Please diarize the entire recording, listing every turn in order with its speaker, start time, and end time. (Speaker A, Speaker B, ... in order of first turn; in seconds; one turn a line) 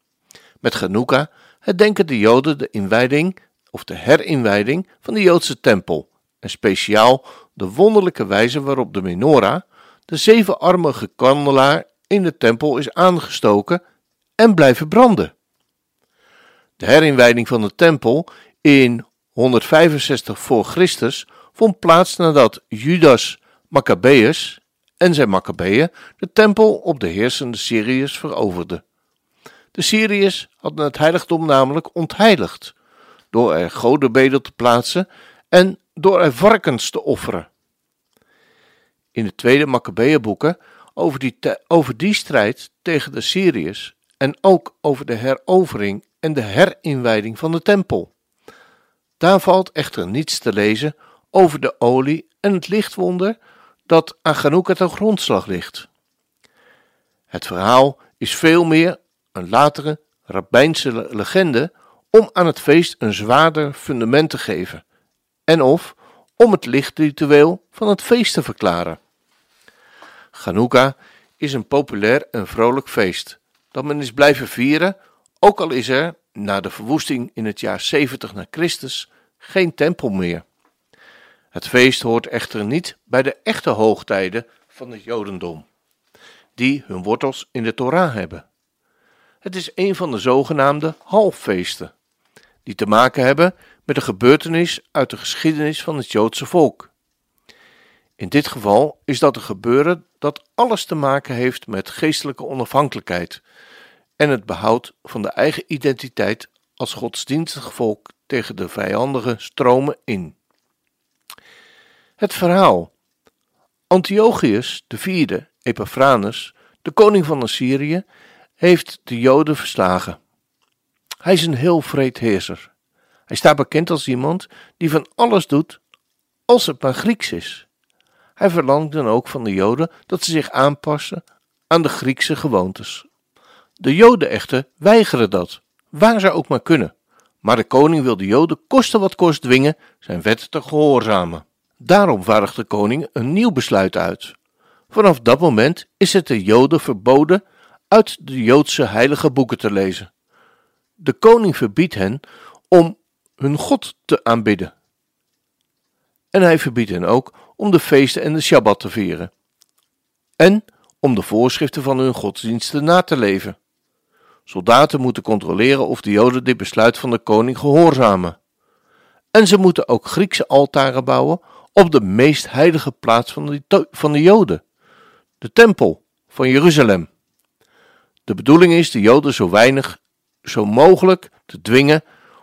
Speaker A: 0.6-13.8
Speaker A: 14.4-15.3
Speaker A: 16.8-28.8
Speaker A: 29.7-32.7
Speaker A: 33.3-37.5
Speaker A: 39.1-48.1
Speaker A: 49.2-53.4
Speaker A: 53.9-55.9
Speaker A: 57.3-64.8
Speaker A: 65.5-69.0
Speaker A: 70.3-80.4
Speaker A: 81.5-85.7
Speaker A: 86.5-88.4
Speaker A: 89.4-91.9
Speaker A: 92.6-96.9
Speaker A: 98.2-103.4
Speaker A: 104.2-110.3
Speaker A: 112.2-112.9
Speaker A: 113.9-118.0
Speaker A: 118.6-120.2
Speaker A: 121.2-122.7
Speaker A: 123.3-125.8
Speaker A: 126.5-127.7
Speaker A: 128.4-133.1
Speaker A: 133.8-144.3
Speaker A: 144.9-150.1
Speaker A: 151.0-154.7
Speaker A: 156.3-159.3
Speaker A: 160.4-163.6
Speaker A: 164.5-168.3
Speaker A: 169.3-174.6
Speaker A: 175.4-177.1
Speaker A: 178.2-182.0